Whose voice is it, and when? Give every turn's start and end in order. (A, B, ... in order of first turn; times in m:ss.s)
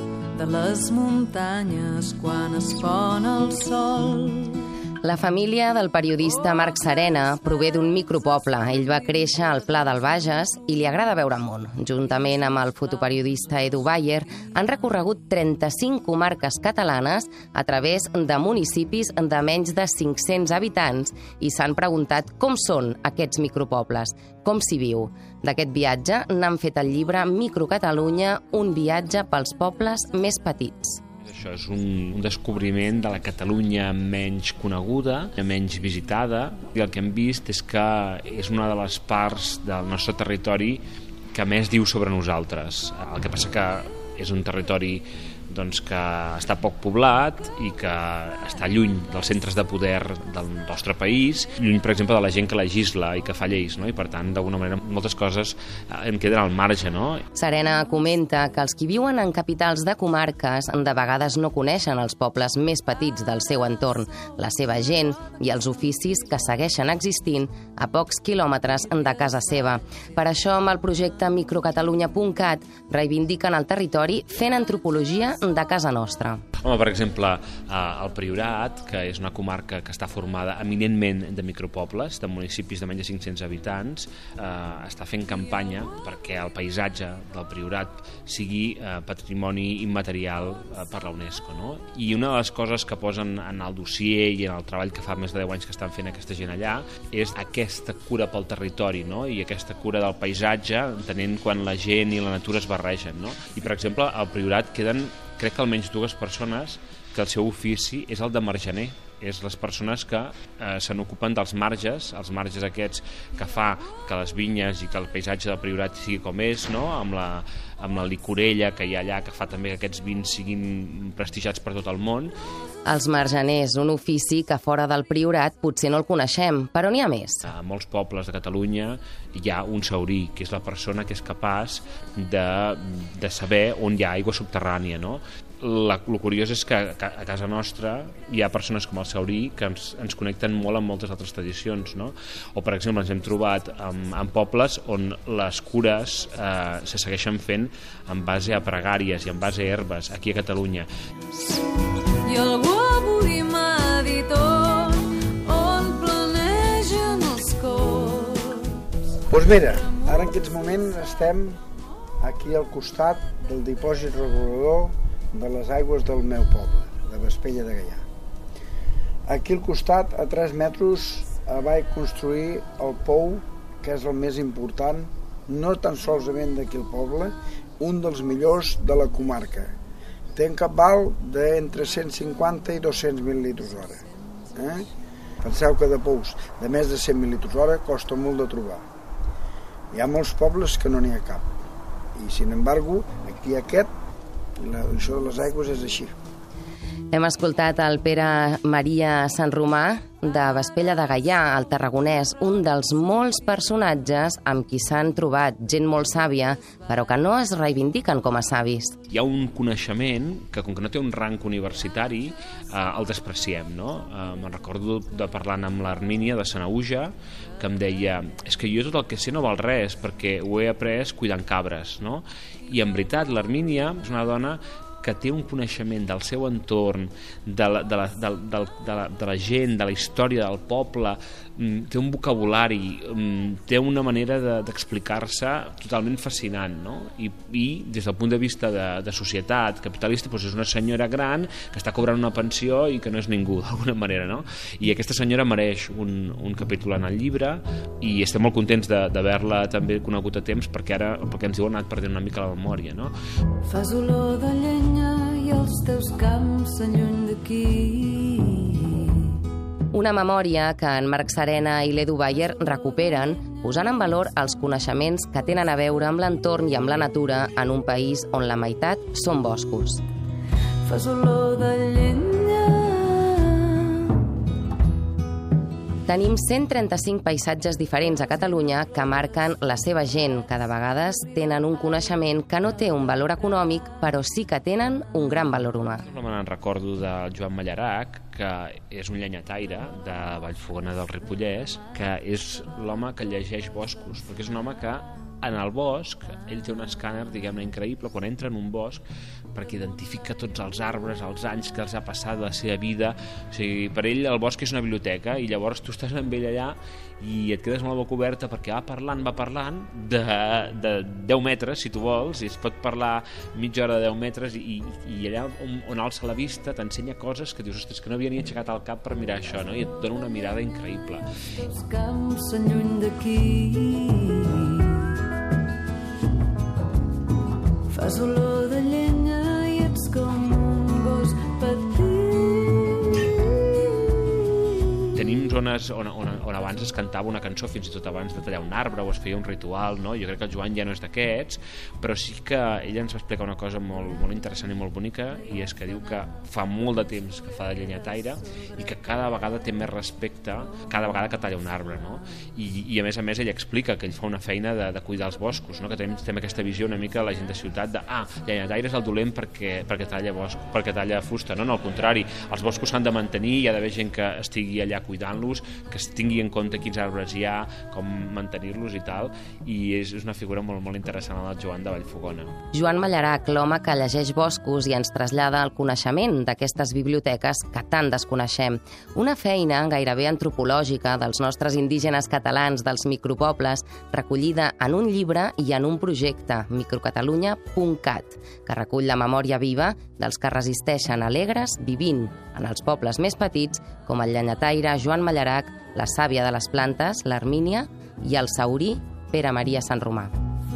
0:00.3-0:04.6 A
0:05.0-0:31.0 B
0:31.2-0:57.2 C
0:57.4-1:16.4 B
1:16.6-2:02.3 C
2:02.9-2:07.5 B
2:07.5-2:30.9 C
2:32.1-2:38.8 A
2:39.3-2:41.6 D
2:42.2-2:48.0 D
2:49.3-2:59.7 D
3:00.4-3:04.9 D
3:05.4-3:08.8 D
3:09.9-3:11.5 D
3:12.2-3:13.9 D
3:14.6-3:16.1 D
3:17.1-3:29.0 B
3:29.1-4:13.2 C
4:13.6-4:19.4 A
4:19.9-4:30.0 B
4:30.8-4:34.2 A
4:36.1-4:46.0 B
4:46.1-5:21.2 C
5:21.6-5:25.2 A
5:27.9-5:35.0 A
5:35.1-6:12.6 C
6:12.7-6:40.3 B